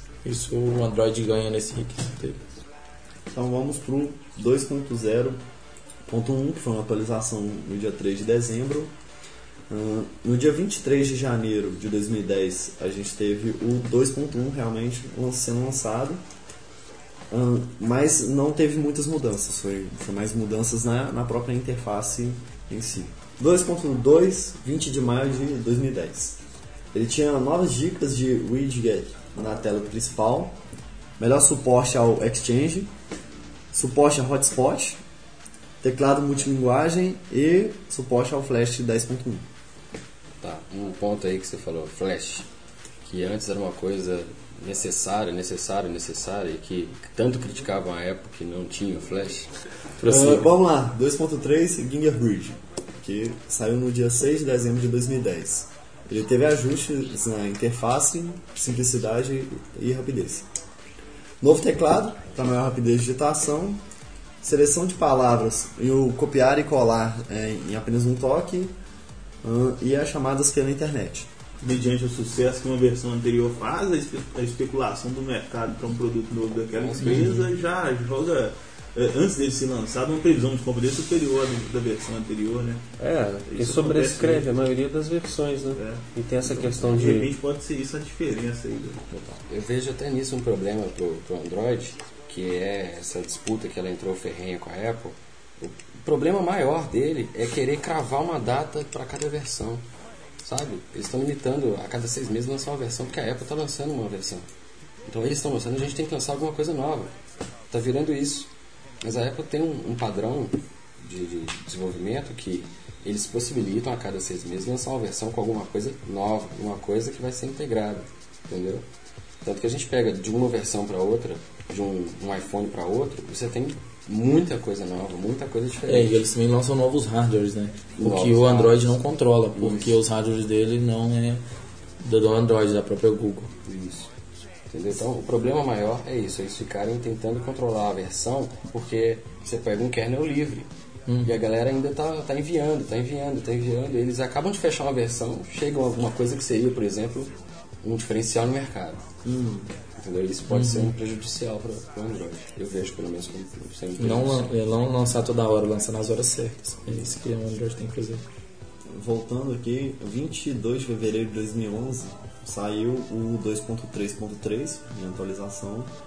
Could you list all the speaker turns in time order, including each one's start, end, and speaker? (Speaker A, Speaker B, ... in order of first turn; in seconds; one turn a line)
Speaker A: 0.2-2.4
Speaker B: 3.3-5.4
Speaker B: 6.1-8.9
Speaker B: 9.7-16.2
Speaker B: 17.3-26.4
Speaker B: 26.9-30.6
Speaker B: 31.2-32.9
Speaker B: 33.7-35.0
Speaker B: 35.8-39.5
Speaker C: 40.4-42.5
Speaker C: 43.1-49.5
Speaker B: 50.0-60.5
Speaker A: 50.0-50.3
Speaker B: 61.4-63.8
Speaker B: 64.4-68.8
Speaker B: 69.4-71.3
Speaker D: 71.6-82.9
Speaker C: 76.7-77.4
Speaker A: 77.0-77.5
Speaker E: 83.0-87.3
Speaker D: 83.5-84.5
Speaker D: 85.7-89.2
Speaker C: 89.5-99.9
Speaker C: 100.4-104.5
Speaker C: 105.1-107.1
Speaker C: 107.7-108.5
Speaker C: 109.0-118.8
Speaker C: 119.4-126.3
Speaker A: 125.9-131.4
Speaker C: 128.0-129.0
Speaker C: 129.6-130.0
Speaker A: 132.0-133.5
Speaker C: 133.7-134.1
Speaker C: 134.7-140.7
Speaker A: 141.1-141.3
Speaker C: 141.2-147.3
Speaker C: 147.8-149.0
Speaker B: 149.2-149.7
Speaker C: 150.0-154.5
Speaker A: 150.5-150.9
Speaker A: 154.0-158.2
Speaker B: 158.9-165.9